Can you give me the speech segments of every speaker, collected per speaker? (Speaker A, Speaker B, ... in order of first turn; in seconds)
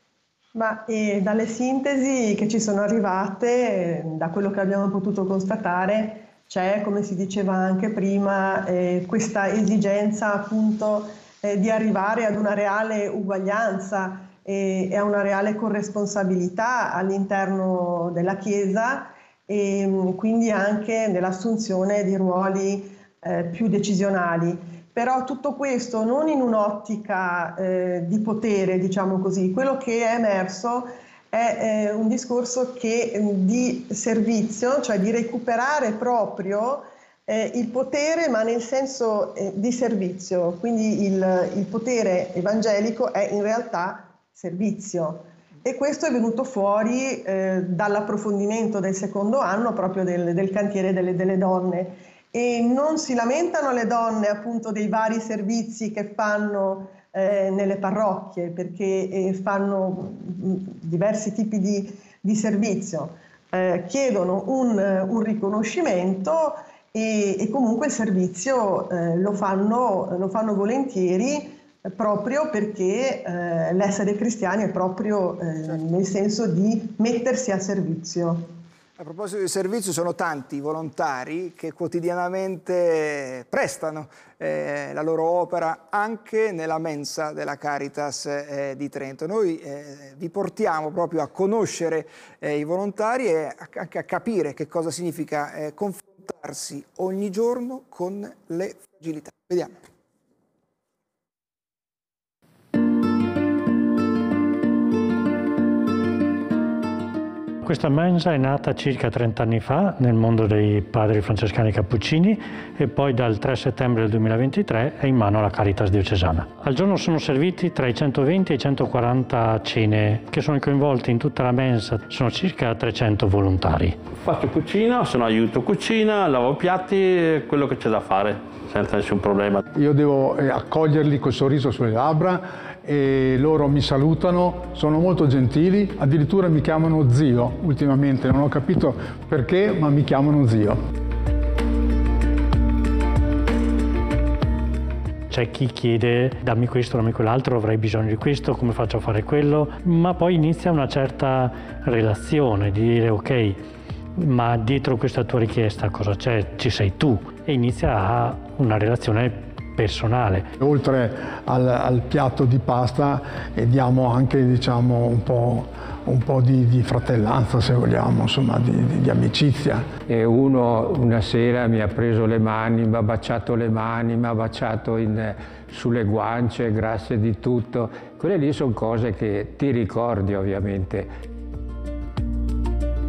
Speaker A: 0.5-78.5
Speaker B: 79.0-99.8
Speaker C: 107.6-124.0, 145.3-160.5
Speaker D: 124.2-129.6
Speaker E: 129.8-140.8, 160.6-169.9
Speaker F: 170.0-181.1